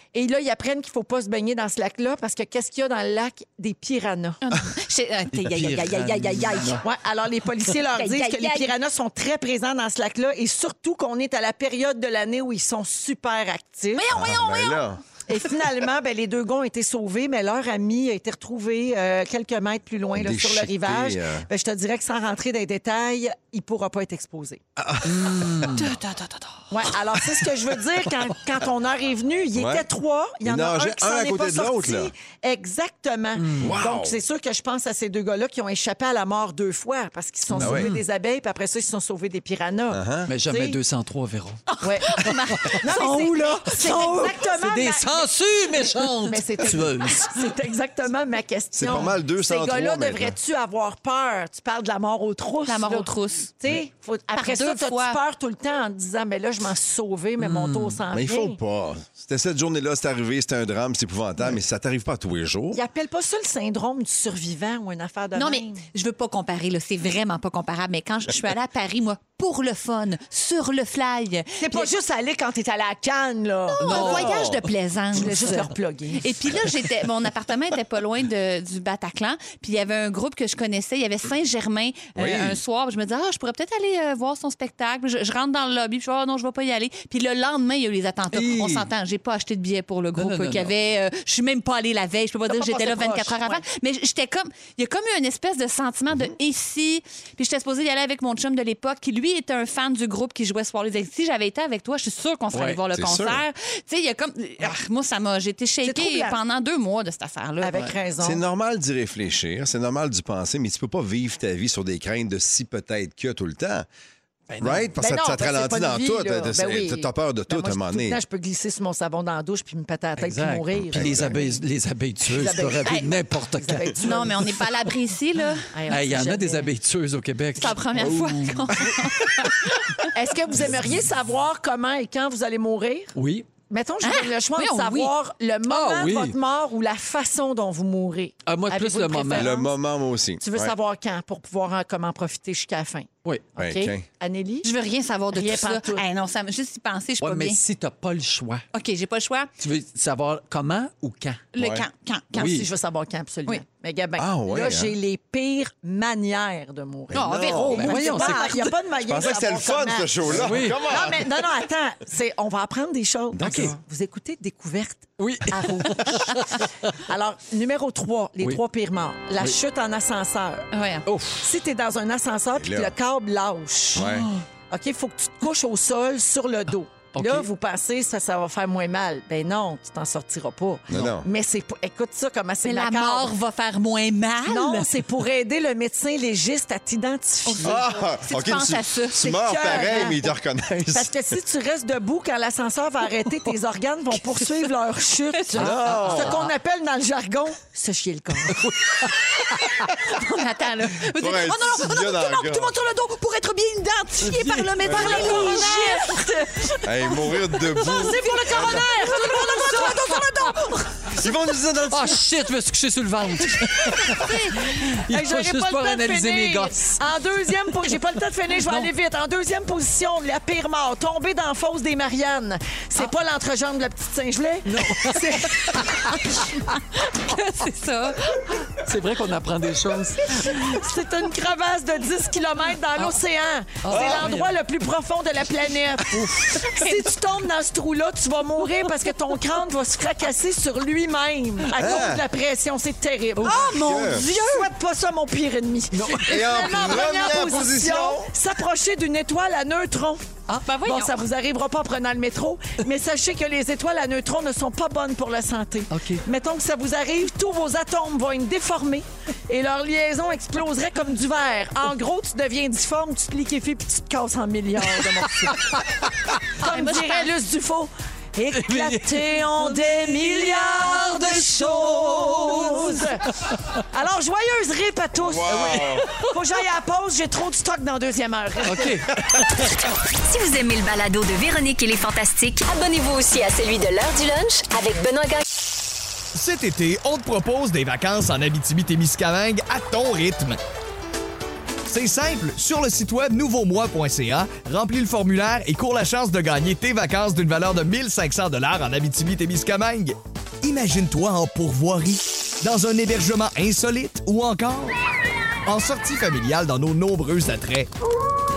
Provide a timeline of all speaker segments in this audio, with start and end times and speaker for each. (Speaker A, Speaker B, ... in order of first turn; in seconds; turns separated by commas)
Speaker A: 0.1-4.4, Speaker B: 4.4-6.8, Speaker C: 5.3-6.8, Speaker A: 6.8-14.1, Speaker B: 7.9-8.7, Speaker B: 13.9-14.9, Speaker D: 14.1-15.0, Speaker A: 15.3-24.6, Speaker D: 20.1-21.4, Speaker D: 24.8-25.8, Speaker C: 25.0-26.4, Speaker A: 26.7-40.8, Speaker D: 29.5-29.8, Speaker D: 30.4-32.1, Speaker C: 33.4-33.8, Speaker D: 33.6-34.1, Speaker C: 37.5-38.0, Speaker D: 37.6-37.9, Speaker D: 39.9-40.3, Speaker C: 40.3-41.6, Speaker B: 41.7-44.4, Speaker A: 41.8-58.6, Speaker C: 42.5-47.4, Speaker D: 48.7-50.4, Speaker B: 52.6-53.5, Speaker B: 54.3-55.2, Speaker C: 57.4-58.0, Speaker D: 58.1-62.8, Speaker A: 62.7-65.8, Speaker B: 65.3-71.9, Speaker A: 71.6-74.4, Speaker B: 73.8-107.9, Speaker C: 73.8-74.3, Speaker D: 74.0-74.6, Speaker A: 75.1-76.3, Speaker D: 82.2-82.6, Speaker C: 88.3-88.9, Speaker C: 90.1-90.7, Speaker C: 92.5-93.5, Speaker C: 102.5-102.8, Speaker D: 102.9-103.4, Speaker A: 105.8-106.4, Speaker A: 107.6-108.4, Speaker D: 108.2-113.9, Speaker C: 114.5-114.9, Speaker D: 114.6-118.2, Speaker A: 115.0-121.6, Speaker C: 120.2-124.0, Speaker D: 120.9-121.3, Speaker A: 122.2-124.6, Speaker B: 124.0-125.7, Speaker A: 125.7-126.7, Speaker C: 125.9-128.8, Speaker B: 127.6-130.1, Speaker A: 130.1-133.1, Speaker C: 133.1-133.5, Speaker A: 133.7-139.7, Speaker B: 134.0-135.1, Speaker C: 135.7-136.3, Speaker C: 138.4-139.5, Speaker D: 139.3-140.7, Speaker A: 140.4-144.7, Speaker C: 143.2-143.5, Speaker D: 143.6-144.0, Speaker B: 144.6-147.6, Speaker A: 145.3-146.0, Speaker C: 147.2-148.6, Speaker B: 148.7-149.5, Speaker C: 149.6-151.4, Speaker B: 151.5-152.4, Speaker D: 151.6-151.8, Speaker C: 152.3-152.7, Speaker A: 152.3-170.7, Speaker D: 154.2-154.9, Speaker D: 157.1-157.9, Speaker B: 157.1-158.7, Speaker C: 157.6-158.6, Speaker D: 159.0-161.4, Speaker C: 160.3-160.8, Speaker D: 163.4-163.6, Speaker C: 163.4-163.8, Speaker C: 165.2-166.6, Speaker B: 170.7-171.0, Speaker C: 171.1-171.4, Speaker A: 171.4-174.1, Speaker D: 172.6-172.9, Speaker D: 173.9-174.3, Speaker C: 174.0-174.4, Speaker A: 174.7-183.3, Speaker C: 177.1-177.5, Speaker D: 180.9-181.3, Speaker B: 182.6-184.9, Speaker A: 184.4-187.8, Speaker B: 187.4-189.8, Speaker D: 187.6-191.1, Speaker A: 189.2-190.3, Speaker A: 190.9-198.7, Speaker D: 195.5-196.4, Speaker C: 195.8-196.4, Speaker C: 198.5-199.1, Speaker B: 200.1-210.9, Speaker D: 201.1-202.7, Speaker C: 204.2-205.6, Speaker D: 204.8-205.5, Speaker A: 204.8-206.3, Speaker D: 206.8-208.8, Speaker A: 208.0-210.0, Speaker D: 211.2-212.2, Speaker C: 211.9-217.0, Speaker B: 214.2-214.7, Speaker A: 215.1-226.2, Speaker C: 224.7-226.2, Speaker B: 227.2-228.6, Speaker C: 228.8-230.6, Speaker A: 230.4-250.2, Speaker C: 233.8-234.5, Speaker D: 233.9-234.2, Speaker C: 236.1-236.5, Speaker D: 241.8-242.2, Speaker C: 243.4-244.2, Speaker D: 243.7-244.2, Speaker C: 245.9-246.3, Speaker D: 246.2-248.3, Speaker B: 250.6-251.1, Speaker A: 250.8-266.0, Speaker C: 255.9-256.2, Speaker C: 265.5-265.8, Speaker A: 266.6-279.0, Speaker B: 266.6-267.3, Speaker C: 268.5-269.8, Speaker C: 270.5-273.5, Speaker D: 275.2-276.1, Speaker C: 275.5-276.1, Speaker C: 278.6-279.2, Speaker E: 280.3-285.4, Speaker F: 286.3-290.6, Speaker F: 291.9-304.9, Speaker F: 305.6-307.9